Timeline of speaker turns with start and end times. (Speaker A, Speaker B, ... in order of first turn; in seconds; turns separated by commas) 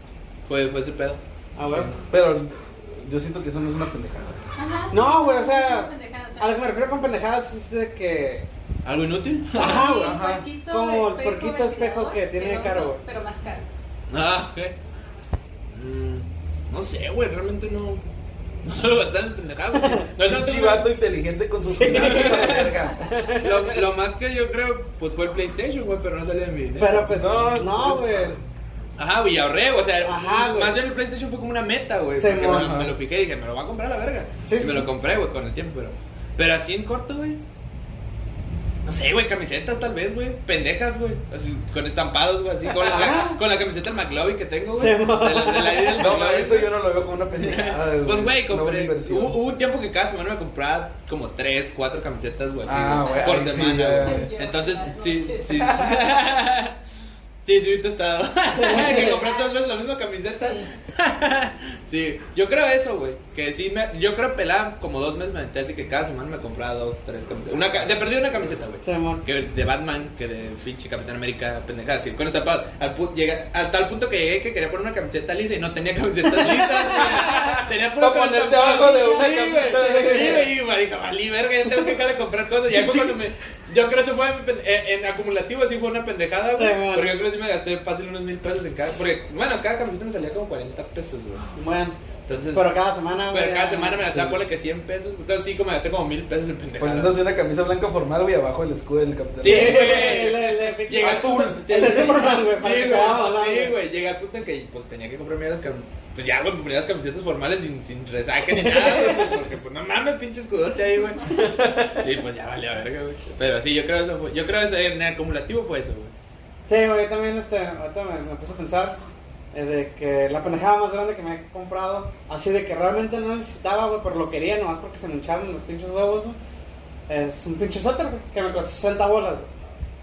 Speaker A: 0.5-2.0, Speaker B: 1.6-1.9, Speaker C: 2.1-4.4, Speaker D: 4.5-6.7, Speaker B: 4.9-8.5, Speaker A: 8.8-9.8, Speaker B: 9.5-13.0, Speaker D: 9.5-13.7, Speaker C: 9.9-10.4, Speaker A: 14.1-14.8, Speaker A: 15.7-18.0, Speaker A: 18.6-20.9, Speaker B: 19.7-20.1, Speaker C: 20.2-23.5, Speaker B: 21.6-23.5, Speaker A: 21.8-22.7, Speaker A: 23.4-27.1, Speaker B: 26.8-28.4, Speaker C: 26.9-28.4, Speaker A: 29.0-37.4, Speaker B: 30.0-30.8, Speaker B: 32.2-32.7, Speaker C: 32.4-32.9, Speaker B: 34.4-34.9, Speaker A: 38.8-46.7, Speaker B: 42.8-43.4, Speaker B: 44.8-46.2, Speaker C: 46.0-49.4, Speaker A: 47.4-56.8, Speaker C: 52.6-54.3, Speaker D: 53.0-56.0, Speaker C: 55.5-56.0, Speaker A: 57.4-91.5, Speaker B: 58.5-59.2, Speaker D: 58.6-59.5, Speaker D: 60.4-60.7, Speaker B: 68.8-69.2, Speaker B: 76.6-77.1, Speaker C: 77.2-80.5, Speaker B: 79.7-80.4, Speaker C: 82.7-83.2, Speaker B: 86.5-87.2, Speaker B: 91.5-92.0, Speaker A: 92.3-92.7, Speaker B: 92.5-94.3, Speaker A: 93.3-97.2, Speaker C: 96.8-100.3, Speaker A: 99.4-111.3, Speaker B: 99.4-103.8, Speaker C: 101.0-102.2, Speaker B: 108.5-109.3, Speaker C: 111.3-112.0, Speaker A: 111.9-116.1, Speaker B: 116.7-119.0, Speaker B: 119.5-126.4, Speaker B: 127.1-129.5